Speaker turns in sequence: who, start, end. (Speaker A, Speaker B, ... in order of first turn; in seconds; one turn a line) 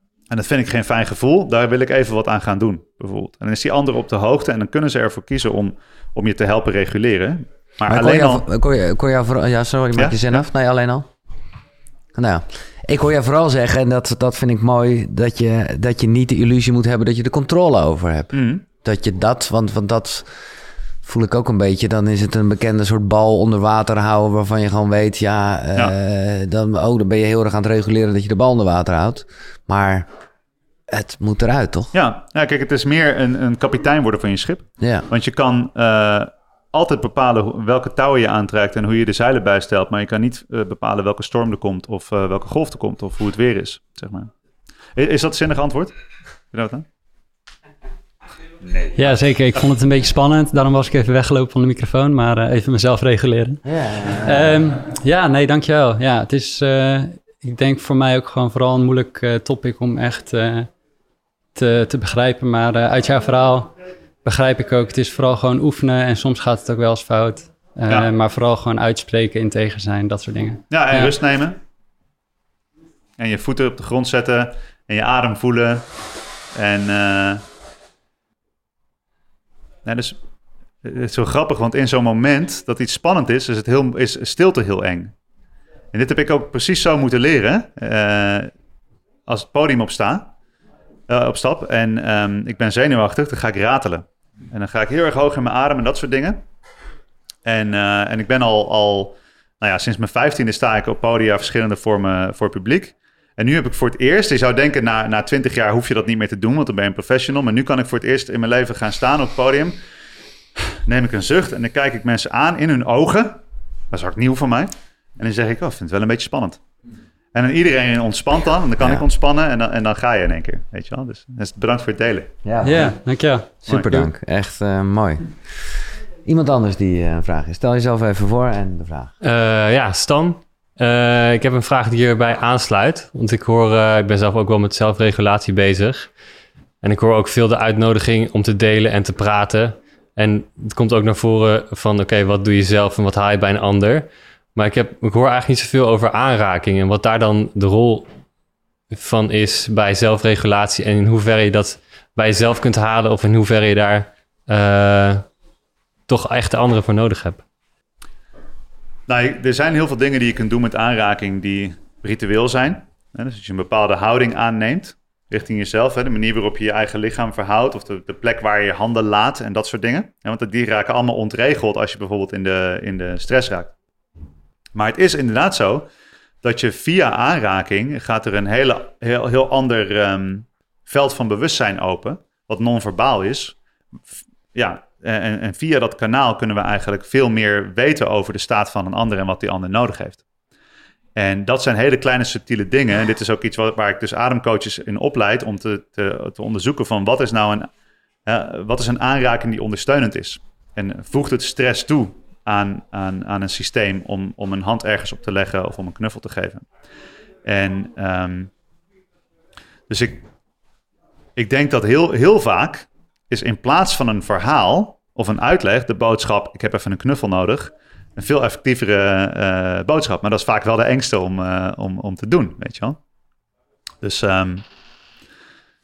Speaker A: 0.3-8.4
Speaker B: 7.8-11.1
Speaker A: 9.9-10.4
Speaker B: 12.1-20.3
Speaker A: 18.3-18.6
Speaker B: 21.0-30.1
Speaker B: 30.9-31.9
Speaker A: 31.9-44.3
Speaker B: 34.8-35.1
Speaker A: 44.9-45.9
Speaker A: 46.5-46.8
Speaker C: 49.0-53.6
Speaker B: 53.6-54.6
Speaker C: 54.2-60.7
Speaker C: 61.5-71.1
Speaker A: 70.7-71.6
Speaker A: 73.2-75.8
Speaker A: 76.5-77.4
Speaker A: 79.8-80.2
Speaker A: 80.8-85.1
Speaker A: 85.9-88.5
Speaker A: 89.3-90.3
Speaker A: 91.1-96.4
Speaker A: 97.4-109.8
Speaker A: 110.8-116.6
Speaker A: 117.3-122.3
Speaker B: 122.4-123.0
Speaker C: 122.6-123.5
Speaker B: 123.7-125.3
Speaker A: 123.7-124.0
Speaker B: 126.2-129.1
Speaker D: 129.2-136.1
Speaker D: 136.8-148.1
Speaker D: 148.9-155.2
Speaker D: 156.1-157.4
Speaker A: 159.1-173.7
Speaker A: 174.7-175.9
Speaker A: 176.4-183.6
Speaker A: 184.5-190.2
Speaker A: 191.2-197.7
Speaker A: 198.2-206.7
Speaker A: 207.4-208.5
Speaker A: 209.9-210.2
Speaker A: 211.3-223.0
Speaker A: 224.0-224.6